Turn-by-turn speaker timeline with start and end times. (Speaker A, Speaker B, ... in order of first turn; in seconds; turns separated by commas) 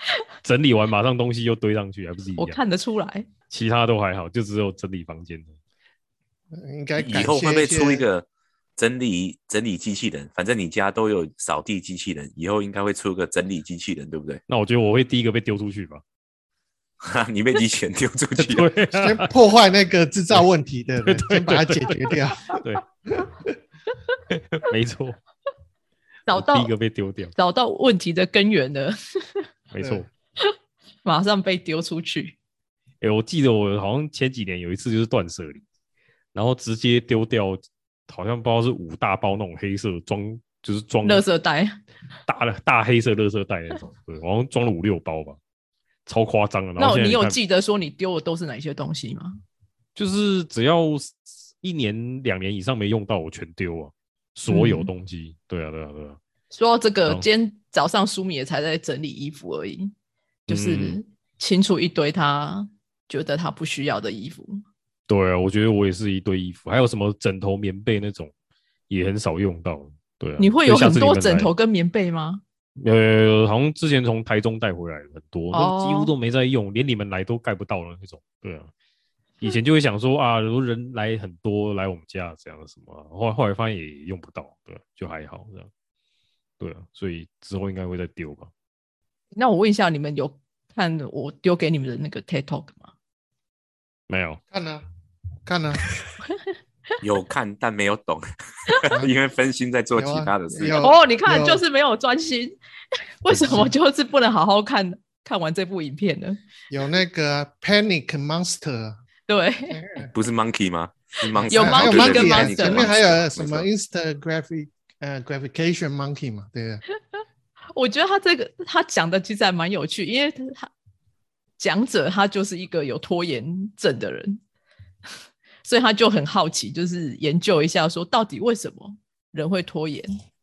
Speaker A: 0.4-2.6, Speaker B: 2.4-3.3, Speaker A: 3.5-5.5, Speaker C: 6.5-8.1, Speaker D: 7.0-8.2, Speaker D: 8.8-14.4, Speaker A: 14.5-16.0, Speaker D: 17.0-18.7, Speaker A: 18.4-19.3, Speaker C: 18.9-22.6, Speaker A: 21.0-22.8, Speaker C: 23.1-23.5, Speaker A: 24.3-25.2, Speaker B: 26.3-26.7, Speaker A: 26.3-27.3, Speaker B: 27.4-29.4, Speaker A: 29.7-30.1, Speaker C: 29.8-30.0, Speaker B: 31.0-32.4, Speaker A: 33.0-35.6, Speaker A: 36.3-41.2, Speaker B: 41.0-41.8, Speaker A: 42.3-45.4, Speaker A: 46.0-47.4, Speaker B: 46.8-49.4, Speaker A: 50.0-56.2, Speaker B: 54.5-54.9, Speaker B: 56.5-59.9, Speaker A: 60.5-61.0, Speaker B: 60.5-64.6, Speaker A: 65.1-68.3, Speaker A: 68.9-71.5, Speaker B: 70.4-72.4, Speaker A: 72.8-78.7, Speaker B: 75.5-76.1, Speaker A: 79.4-85.7, Speaker A: 86.6-88.5, Speaker B: 89.3-92.9, Speaker A: 94.1-94.4, Speaker C: 94.5-94.8, Speaker C: 95.5-95.8, Speaker D: 97.0-100.8, Speaker C: 99.9-101.6, Speaker B: 100.8-102.5, Speaker B: 103.2-106.4, Speaker C: 106.7-109.0, Speaker B: 109.3-109.8, Speaker C: 109.7-110.1, Speaker D: 110.1-113.7, Speaker C: 111.3-116.8, Speaker B: 111.5-112.9, Speaker B: 117.7-120.7, Speaker B: 121.6-124.4, Speaker B: 125.6-130.2